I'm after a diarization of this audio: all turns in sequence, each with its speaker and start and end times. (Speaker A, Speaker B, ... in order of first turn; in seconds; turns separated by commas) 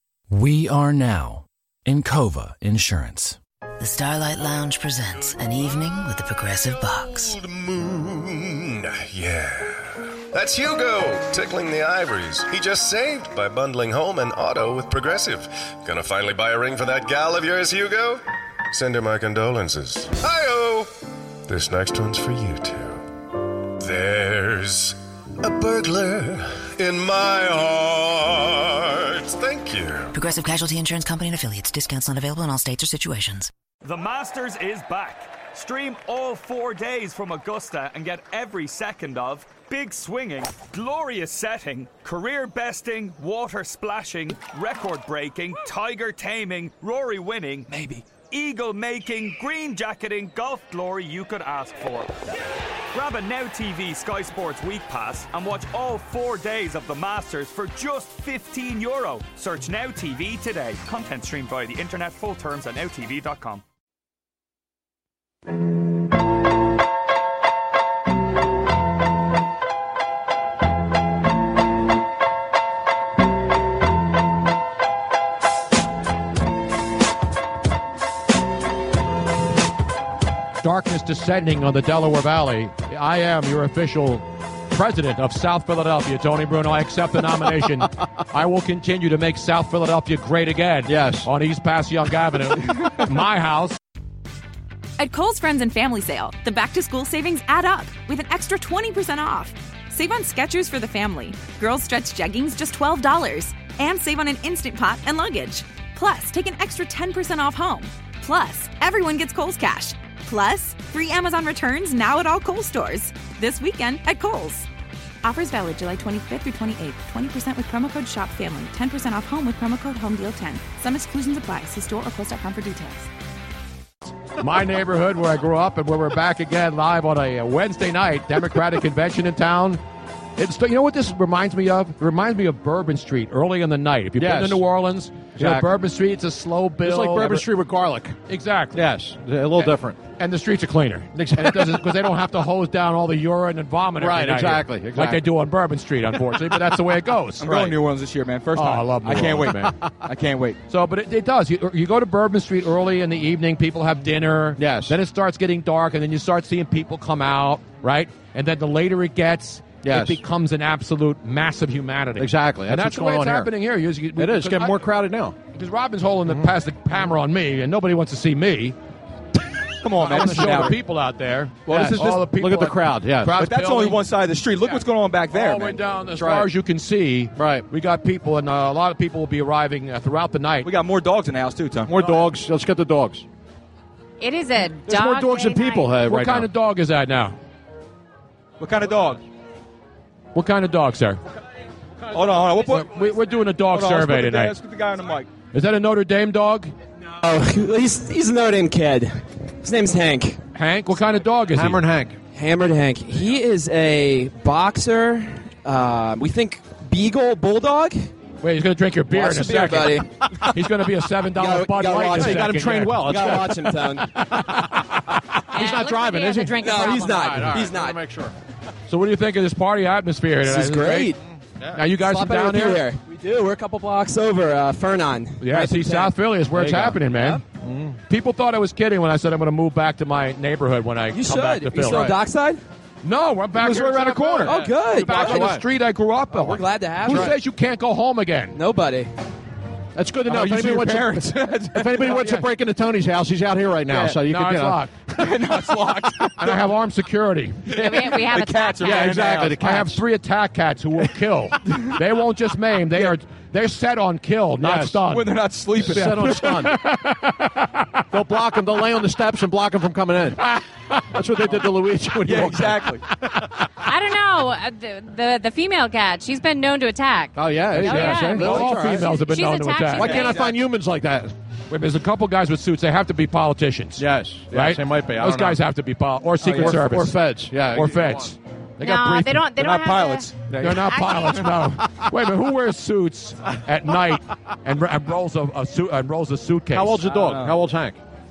Speaker A: 0.3-3.4, Speaker B: 3.8-7.3, Speaker C: 7.1-20.9, Speaker C: 21.5-23.1, Speaker C: 23.8-30.2, Speaker B: 30.1-33.5, Speaker D: 33.8-52.1, Speaker E: 47.7-48.0, Speaker D: 52.9-63.6, Speaker F: 80.6-93.8, Speaker G: 90.9-91.3, Speaker H: 95.0-114.7, Speaker H: 115.2-123.1, Speaker F: 124.4-129.8, Speaker F: 130.4-137.5, Speaker G: 134.2-134.6, Speaker G: 135.4-135.7, Speaker G: 136.8-138.2, Speaker F: 138.3-138.8, Speaker G: 138.7-140.0, Speaker F: 140.2-147.8, Speaker G: 141.2-141.9, Speaker G: 144.0-145.2, Speaker E: 147.4-150.6, Speaker F: 148.5-149.8, Speaker F: 150.7-164.8, Speaker G: 154.6-155.0, Speaker G: 159.8-160.2, Speaker G: 162.2-163.5, Speaker G: 164.2-165.4, Speaker F: 165.5-168.8, Speaker G: 166.3-166.5, Speaker E: 169.8-170.8, Speaker F: 170.0-174.0, Speaker E: 171.7-172.2, Speaker G: 171.7-173.4, Speaker E: 173.4-175.8, Speaker F: 175.3-180.7, Speaker G: 176.2-176.5, Speaker G: 177.4-177.7, Speaker E: 180.6-181.9, Speaker G: 181.9-183.2, Speaker I: 184.2-185.9, Speaker G: 184.9-186.5, Speaker F: 186.1-187.3, Speaker E: 188.6-189.2, Speaker F: 190.3-191.2, Speaker E: 192.1-192.9, Speaker F: 192.7-194.5, Speaker E: 193.7-195.3, Speaker F: 195.5-196.7, Speaker J: 197.2-200.4, Speaker F: 200.6-201.8, Speaker G: 201.5-202.2, Speaker J: 202.3-208.1, Speaker F: 208.4-213.6, Speaker J: 209.1-210.4, Speaker J: 211.3-214.2, Speaker G: 212.0-214.8, Speaker I: 215.5-217.6, Speaker G: 215.5-218.3, Speaker J: 216.6-218.0, Speaker F: 218.9-221.1, Speaker J: 220.4-221.2, Speaker F: 221.7-222.8, Speaker J: 222.0-226.2, Speaker F: 225.4-227.4, Speaker G: 226.5-228.0, Speaker F: 228.1-232.2, Speaker J: 231.1-232.6, Speaker G: 231.8-232.2, Speaker F: 233.0-238.6, Speaker E: 233.6-234.6, Speaker G: 234.4-235.7, Speaker J: 234.5-235.4, Speaker J: 236.4-237.3, Speaker G: 237.1-237.4, Speaker J: 238.5-239.1, Speaker G: 239.9-244.8, Speaker E: 240.3-242.2, Speaker F: 242.2-242.4, Speaker F: 243.9-244.9, Speaker E: 245.2-246.5, Speaker F: 246.4-247.8, Speaker I: 247.7-249.2, Speaker E: 247.8-249.6, Speaker G: 248.8-250.0, Speaker F: 249.5-258.0, Speaker G: 254.6-255.1, Speaker E: 255.1-256.6, Speaker G: 255.8-256.8, Speaker G: 258.1-263.4, Speaker E: 262.2-263.1, Speaker I: 263.8-270.5, Speaker G: 267.4-269.2, Speaker F: 267.8-270.4, Speaker G: 269.9-271.3, Speaker F: 271.7-279.5, Speaker G: 274.0-275.6, Speaker E: 276.4-276.8, Speaker G: 276.4-278.3, Speaker I: 278.8-280.3, Speaker E: 279.6-281.0, Speaker F: 280.6-287.0, Speaker I: 280.9-281.5, Speaker G: 286.7-288.0, Speaker E: 287.0-287.6